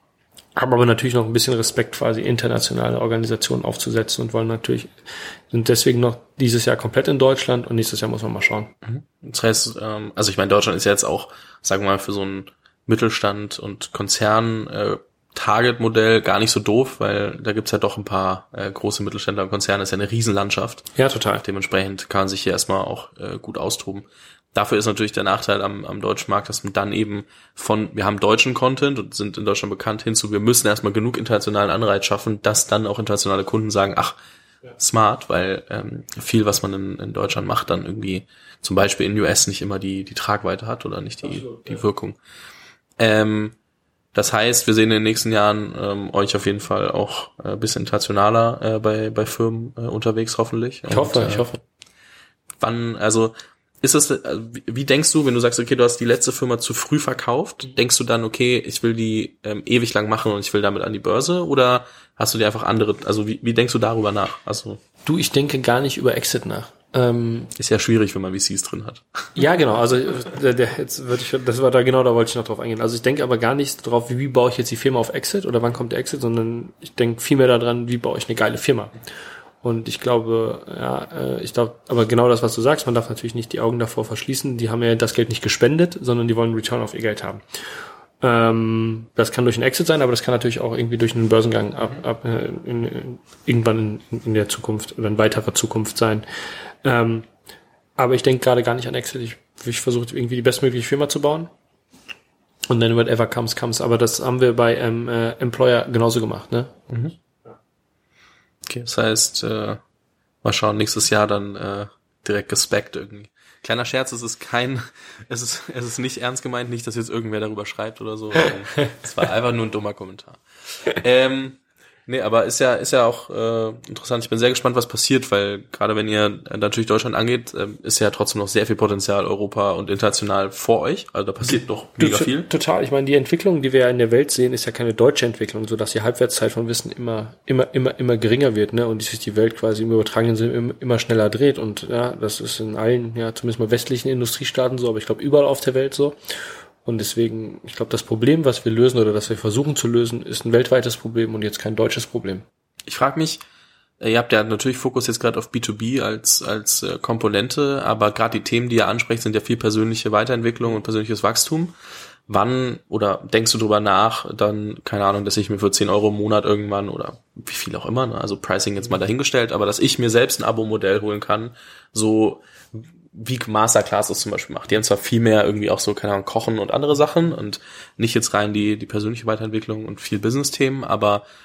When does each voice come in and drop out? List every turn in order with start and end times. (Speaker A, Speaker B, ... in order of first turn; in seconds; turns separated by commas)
Speaker A: 0.6-4.9, Speaker A: 5.5-8.7, Speaker B: 8.8-20.9, Speaker A: 21.0-21.4, Speaker B: 21.4-34.2, Speaker B: 34.8-42.2, Speaker A: 41.4-41.8, Speaker B: 43.0-43.5, Speaker B: 44.1-51.5, Speaker A: 50.9-51.6, Speaker B: 52.6-64.8, Speaker A: 65.0-67.5, Speaker B: 67.6-69.0, Speaker A: 69.4-78.9, Speaker A: 79.6-87.4, Speaker A: 88.2-96.2, Speaker A: 96.8-97.3, Speaker A: 98.0-101.5, Speaker A: 102.7-106.9, Speaker B: 108.7-109.8, Speaker B: 110.4-132.5, Speaker A: 131.5-146.2, Speaker A: 146.8-152.4, Speaker B: 152.9-153.4, Speaker B: 154.0-161.7, Speaker B: 162.3-181.2